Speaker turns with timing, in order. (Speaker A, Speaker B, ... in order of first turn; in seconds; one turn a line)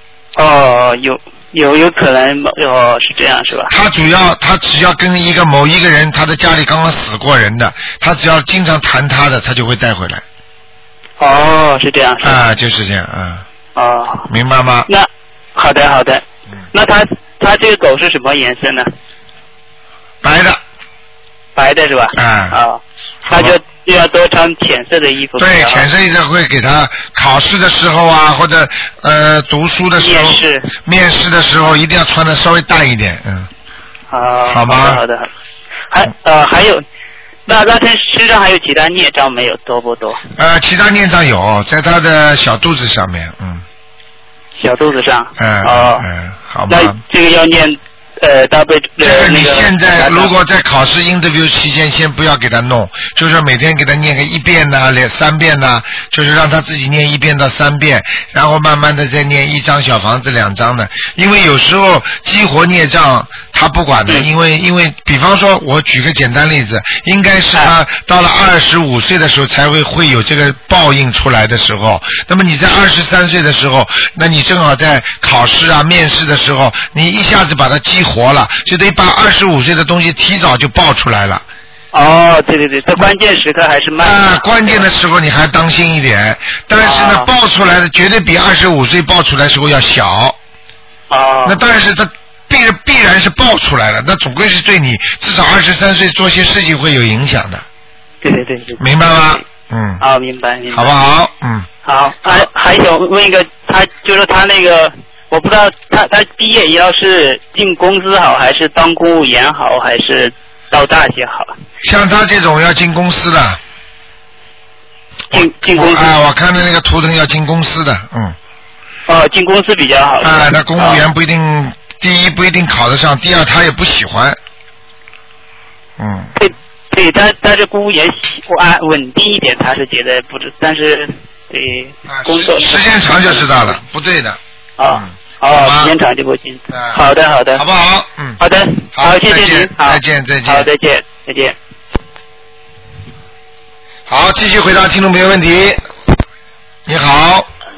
Speaker A: 0.4-3.7
Speaker B: 3.7-10.2
Speaker A: 11.2-12.4
Speaker B: 12.2-13.4
Speaker A: 13.8-14.3
Speaker B: 14.3-14.9
Speaker A: 14.9-18.9
Speaker B: 20.2-20.6
Speaker A: 21.6-25.9
Speaker B: 22.1-22.6
Speaker B: 23.2-23.6
Speaker B: 25.4-33.5
Speaker A: 30.0-30.7
Speaker A: 34.1-35.3
Speaker B: 34.5-35.0
Speaker A: 35.9-36.8
Speaker A: 37.5-40.2
Speaker B: 40.4-43.6
Speaker A: 44.6-46.1
Speaker B: 45.4-47.0
Speaker A: 46.7-50.3
Speaker B: 49.0-81.5
Speaker A: 81.9-84.9
Speaker B: 84.0-90.4
Speaker A: 86.8-87.3
Speaker A: 91.1-91.6
Speaker B: 91.5-97.7
Speaker A: 98.2-99.4
Speaker B: 98.8-100.0
Speaker A: 100.0-101.0
Speaker B: 100.7-101.7
Speaker A: 101.8-111.5
Speaker B: 111.8-113.6
Speaker A: 115.3-116.2
Speaker B: 115.3-118.4
Speaker A: 119.1-121.0
Speaker B: 120.2-124.4
Speaker B: 126.0-126.3
Speaker A: 126.4-133.7
Speaker B: 132.1-135.9
Speaker A: 134.8-137.6
Speaker B: 136.7-138.4
Speaker A: 138.4-141.6
Speaker B: 138.9-140.7
Speaker B: 144.1-145.8
Speaker B: 146.9-147.5